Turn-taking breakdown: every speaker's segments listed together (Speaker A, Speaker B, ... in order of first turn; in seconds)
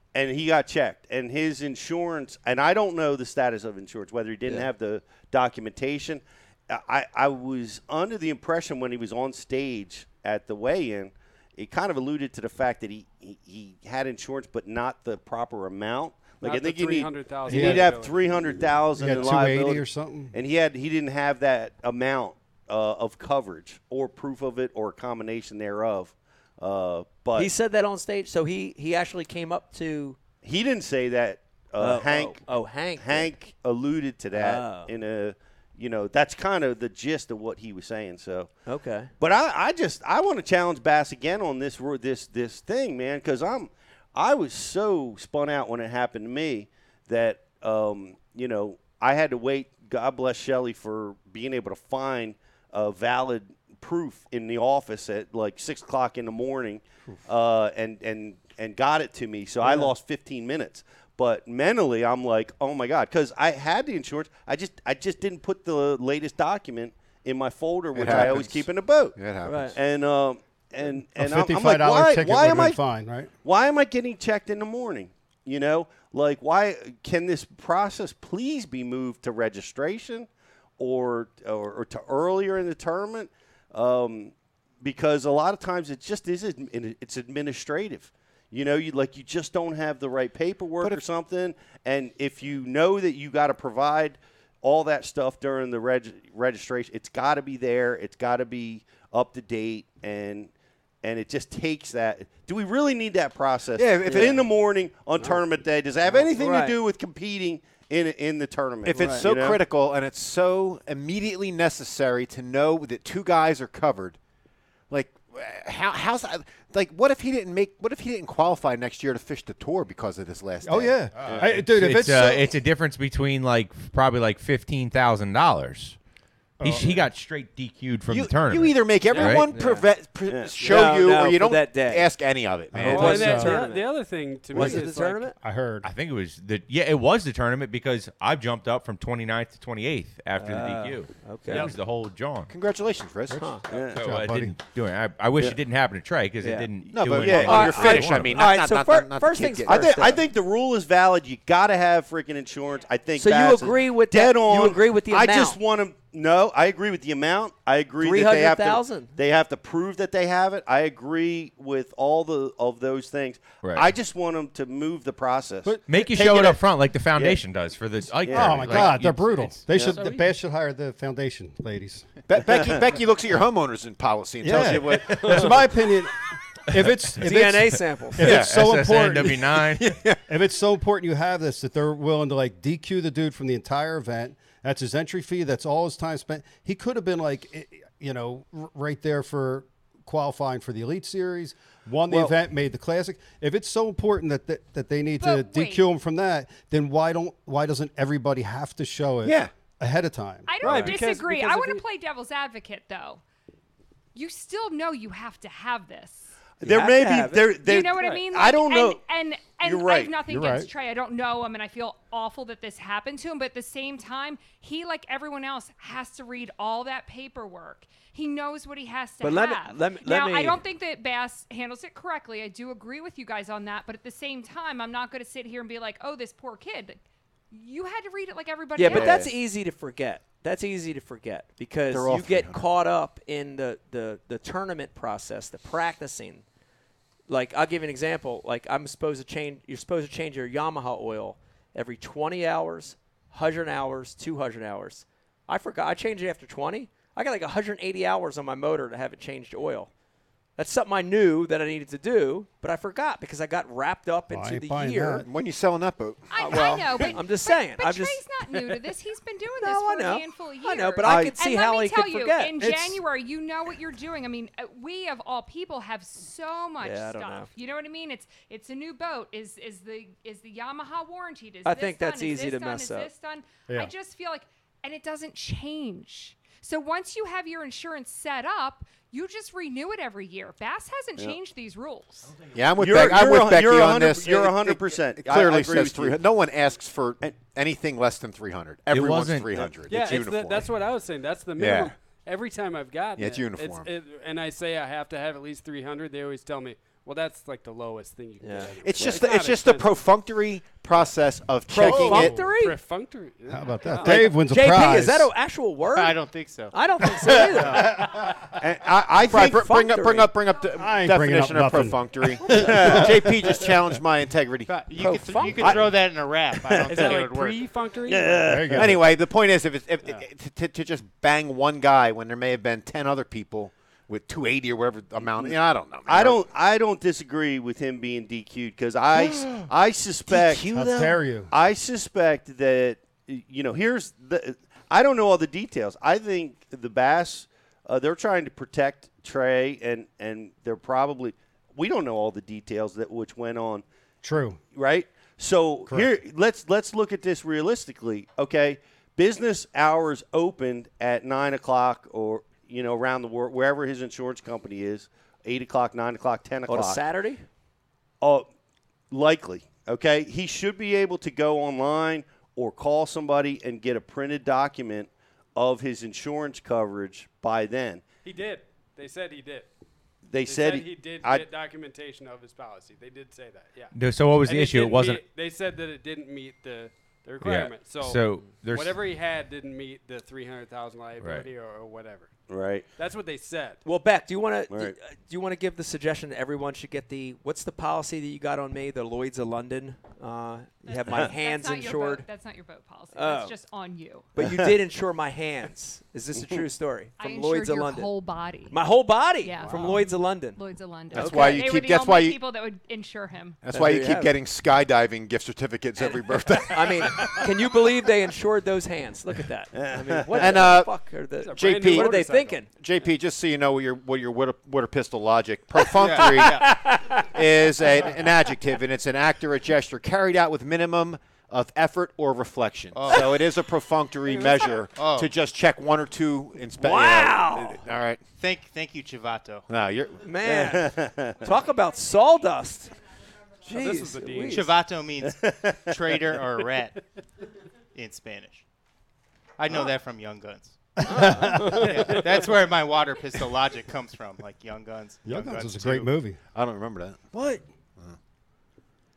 Speaker A: 0.1-27.5, 30.4-32.4, 33.0-38.5, 39.2-69.2, 69.7-72.8, 73.4-80.3, 80.8-100.5, 101.0-109.6, 130.3-130.5, 143.7-144.1, 147.2-147.7, 149.7-166.6, 168.2-168.9, 206.6-209.0, 209.6-210.2, 261.0-261.3, 282.8-286.2, 308.6-309.7, 312.5-313.1, 315.6-315.9, 316.6-317.2, 318.1-319.0, 326.1-330.9, 331.5-343.8, 344.7-357.0, 358.2-358.5, 359.1-368.0, 370.3-371.5, 382.5-382.9, 394.4-394.7, 409.7-410.7, 430.4-431.5, 435.2-436.2
Speaker B: 16.4-18.3, 132.9-135.3, 169.9-170.3, 200.6-201.8, 289.9-300.0, 301.8-304.4, 315.3-315.8, 316.9-318.7, 368.2-369.7, 370.4-382.3, 383.0-383.8, 411.4-412.7, 433.6-434.8
Speaker C: 17.5-17.9, 18.9-20.3, 71.1-73.3, 120.6-122.5, 126.6-127.1, 132.7-133.7, 135.3-135.9, 144.0-144.6, 168.3-172.1, 174.4-179.4, 180.3-200.6, 210.3-210.7, 254.3-255.3, 262.6-262.9, 301.8-302.4, 303.5-305.3, 307.8-308.2, 310.8-313.3, 318.4-319.0, 330.6-331.5, 344.2-344.6, 345.9-346.1, 441.0-442.1, 445.2-446.4
Speaker D: 27.4-30.2, 31.8-33.3, 34.4-34.9, 38.6-39.1, 59.6-59.9, 69.4-69.8, 104.0-104.3, 106.3-106.8, 108.9-109.3, 129.2-129.9, 130.6-132.1, 132.7-135.3, 140.4-141.7, 143.3-143.6, 146.4-150.2, 153.2-155.6, 158.0-159.1, 169.7-170.1, 177.2-178.3, 200.6-200.9, 206.6-207.5, 219.2-220.6, 228.8-236.4, 237.3-249.9, 250.6-255.2, 256.4-258.6, 259.6-262.6, 266.8-267.5, 271.6-273.1, 298.4-298.7, 301.7-302.8, 304.0-308.0, 309.3-310.3, 314.9-315.8, 356.7-357.4, 383.8-392.2, 393.1-393.6, 394.3-398.1, 398.7-400.6, 401.1-401.7, 403.7-404.4, 406.0-412.7, 415.8-417.2, 426.8-427.8, 430.2-432.9, 433.6-434.7, 441.0-442.2
Speaker E: 67.9-69.8, 103.8-104.5, 108.8-114.2, 114.9-121.6, 128.1-133.4, 142.5-143.5, 146.9-150.2, 172.3-175.6, 178.2-180.2, 199.2-199.5, 228.9-229.3, 231.9-232.6, 255.2-256.2, 282.5-290.7, 291.6-291.9, 293.1-293.9, 298.8-302.4, 308.6-314.7, 318.7-326.4, 329.1-329.6, 330.3-331.2, 401.1-402.4, 403.6-407.5, 410.3-412.1, 412.7-416.8, 417.3-428.2, 429.7-430.2, 446.5-448.2
Speaker F: 121.4-126.0, 126.6-129.5, 135.8-142.5, 143.9-148.4, 163.6-163.9, 165.9-169.6, 178.2-180.0, 288.9-289.7, 373.9-375.2, 377.4-379.0, 381.2-381.5
Speaker G: 195.2-195.9, 200.4-203.2, 204.1-206.3, 207.6-227.0, 227.5-229.2, 256.3-282.3, 390.9-394.3, 397.2-398.8, 399.4-403.6, 431.7-432.5
Speaker H: 305.9-306.7, 314.7-317.7, 415.9-416.7, 422.9-423.4, 424.9-425.3, 428.4-429.7, 434.5-437.0, 437.9-438.6, 439.6-440.8, 441.8-446.1